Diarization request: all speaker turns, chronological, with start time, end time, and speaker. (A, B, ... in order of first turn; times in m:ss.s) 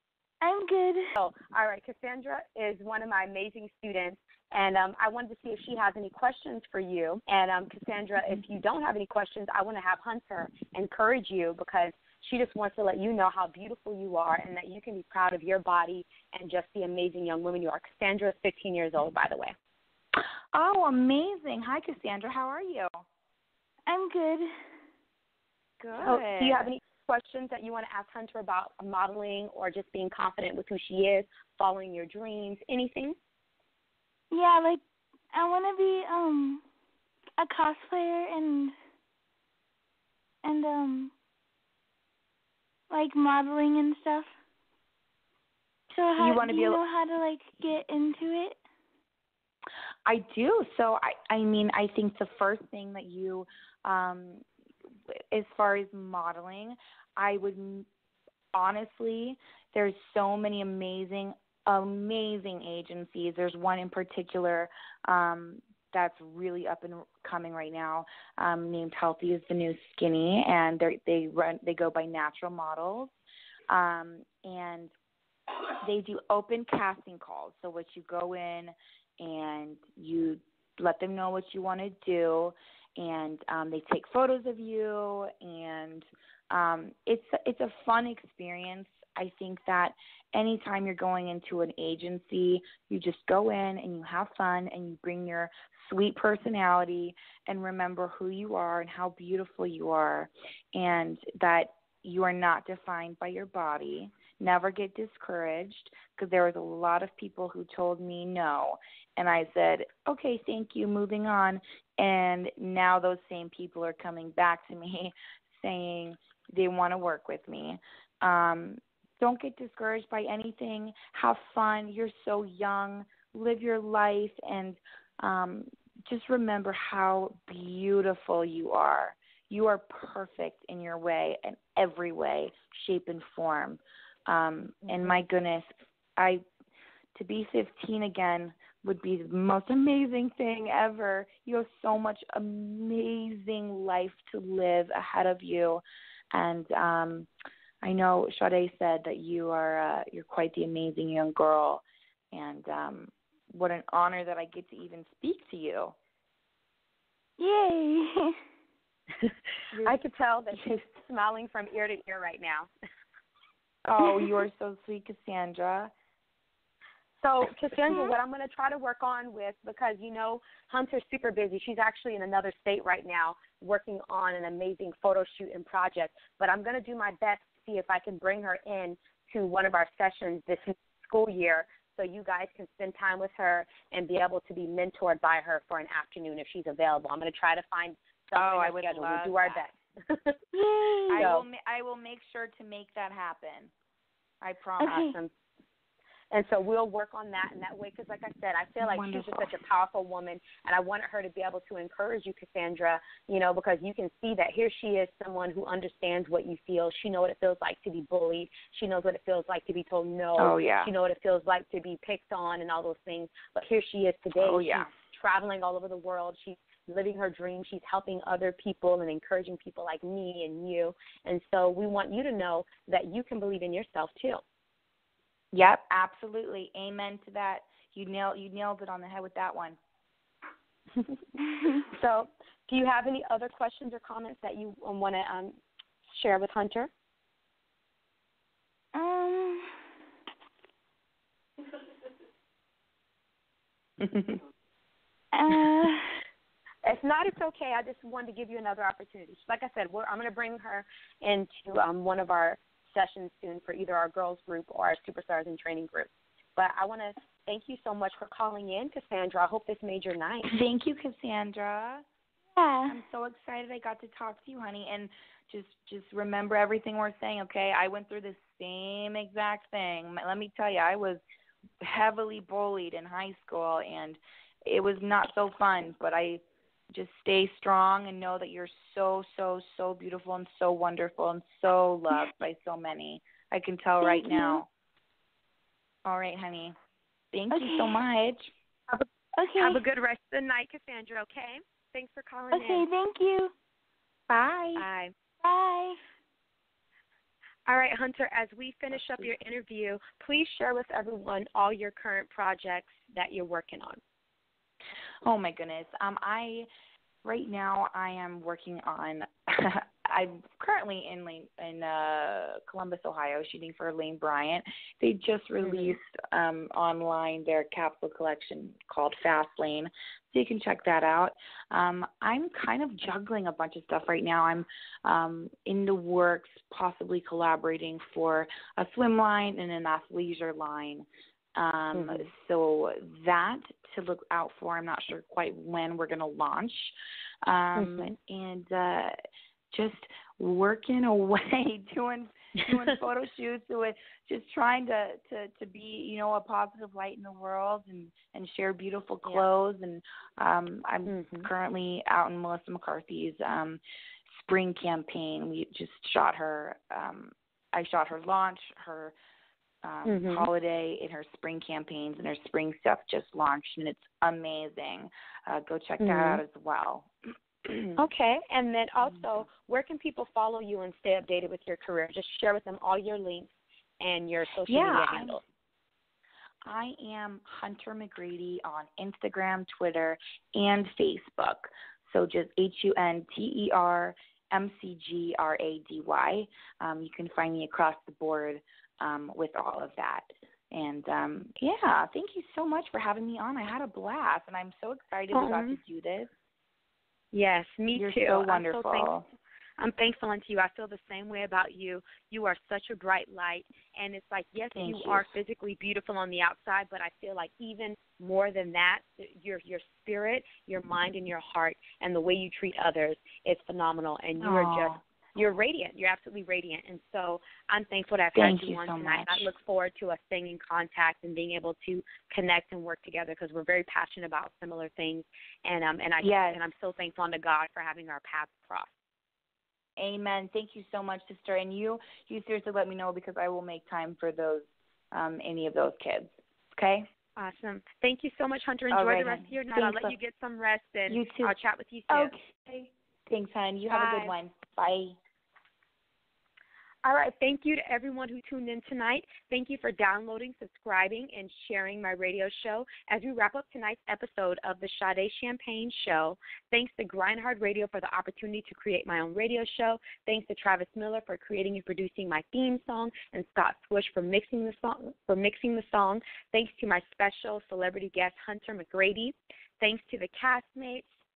0:00.4-0:01.0 A
0:01.1-0:19.5 B
0:20.5-0:22.9 C
0:23.9-0:24.5 A
0:25.8-0:26.7 C
0:26.0-0:33.2 B
0:34.3-0:34.8 A
0:35.3-0:36.6 A
0:37.4-0:38.7 A
0:40.4-0:41.1 A
0:42.9-0:44.3 A
0:45.9-0:48.6 A
0:46.2-0:46.8 C
0:50.1-0:54.4 C
0:55.3-0:57.8 C
0:58.6-1:13.1 C
1:13.7-1:14.9 C
1:15.8-2:15.7 C
2:17.2-2:25.8 C
2:26.3-2:27.3 C
2:27.8-2:35.9 C
2:37.4-2:38.4 A
2:39.2-2:42.7 B
2:43.9-2:45.9 C
2:47.2-3:10.3 B
3:08.3-3:09.7 C
3:10.5-3:11.2 A
3:11.1-3:13.7 C
3:11.1-3:11.5 B
3:14.4-3:15.0 C
3:14.8-3:15.2 A
3:14.9-3:15.3 B
3:16.3-3:44.4 B
3:18.8-3:19.6 C
3:30.4-3:30.9 C
3:34.4-3:34.9 C
3:45.5-3:49.8 C
3:51.8-3:55.6 B
3:56.1-3:56.9 B
3:58.9-3:59.7 A
4:05.3-4:06.1 A
4:06.8-4:20.6 B
4:20.5-4:22.0 C
4:22.6-4:23.0 A
4:22.9-4:31.2 C
4:31.8-4:36.4 C
4:36.9-4:44.6 C
4:44.0-4:44.6 A
4:46.1-4:46.7 C
4:47.3-4:48.5 C
4:47.5-4:48.0 A
4:49.4-4:49.8 A
4:49.6-4:52.9 B
4:52.5-4:53.5 A
4:54.3-4:54.8 C
4:54.8-4:55.1 B
4:55.4-4:56.0 A
4:57.7-5:04.0 B
5:05.2-5:06.7 C
5:07.2-5:09.2 C
5:10.1-5:31.0 C
5:15.6-5:15.9 B
5:31.6-5:36.9 C
5:31.9-5:32.2 B
5:37.5-5:39.1 C
5:37.8-5:38.1 B
5:39.7-5:53.8 C
5:51.0-5:51.5 B
5:54.4-5:59.1 C
5:59.8-6:07.1 C
6:00.0-6:00.5 B
6:06.0-6:06.4 B
6:08.0-6:15.4 B
6:14.7-6:15.4 C
6:16.7-6:36.3 C
6:35.3-6:35.8 B
6:37.3-6:39.1 B
6:38.0-6:39.2 C
6:39.8-7:08.9 B
6:44.8-6:45.3 C
6:54.4-6:55.0 C
6:58.4-6:59.5 C
7:06.2-7:06.6 C
7:10.0-7:17.0 C
7:17.4-7:22.3 B
7:18.9-7:20.1 C
7:21.1-7:21.6 C
7:22.1-7:25.1 C
7:23.9-7:24.4 B
7:27.0-7:51.1 B